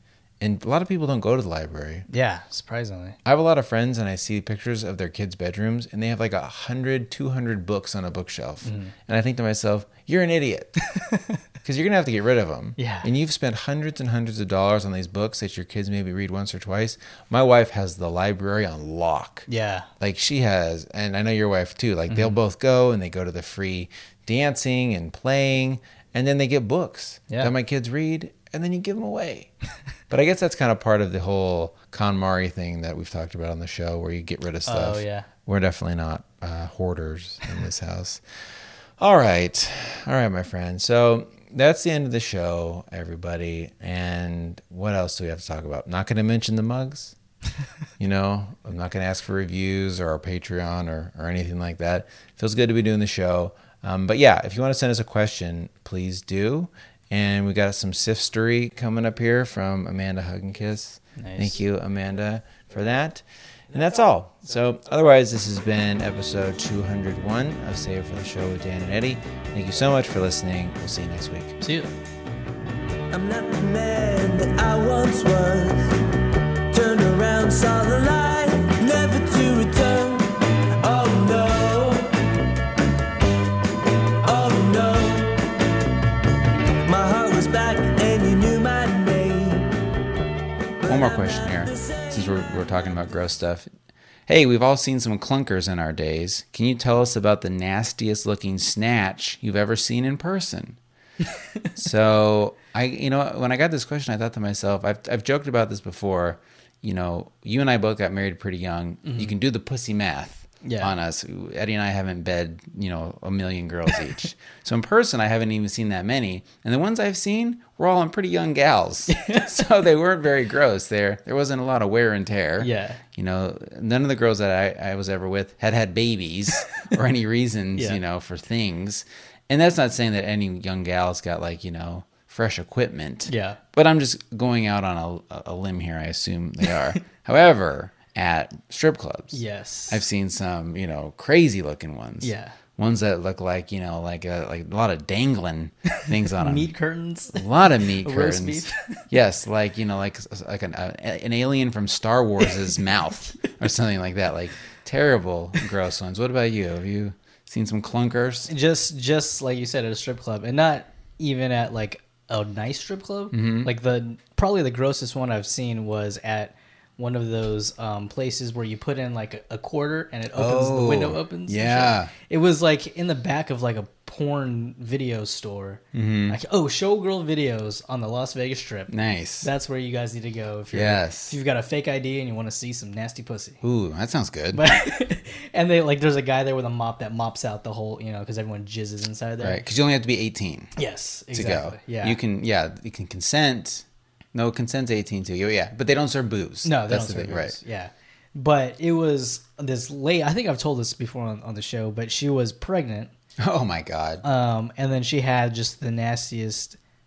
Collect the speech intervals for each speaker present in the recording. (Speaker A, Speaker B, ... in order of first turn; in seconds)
Speaker A: 0.4-2.0, 3.2-10.7, 11.6-19.5, 20.0-29.5, 30.1-38.2, 39.0-47.1, 48.0-71.6, 90.8-93.7, 94.3-100.8, 101.7-146.7, 147.3-158.5, 163.3-163.7, 170.3-172.1, 175.9-176.4, 178.9-179.5, 180.7-181.3, 183.6-184.6, 189.4-190.7, 191.3-197.6, 203.4-204.2
Speaker B: 2.1-3.1, 8.6-8.9, 10.9-11.4, 12.8-13.1, 19.5-19.9, 22.1-22.3, 34.7-35.3, 61.2-61.5, 71.6-71.9, 109.0-109.3, 110.6-110.9, 119.1-119.5, 122.6-123.0, 127.7-128.0, 133.3-133.6, 139.3-140.0, 142.2-142.6, 146.3-149.1, 158.5-183.6, 184.5-189.6, 190.8-192.2, 196.6-203.1, 204.2-206.8
Speaker C: 73.1-76.0, 76.7-82.2, 84.2-85.4, 86.8-89.7, 90.8-92.6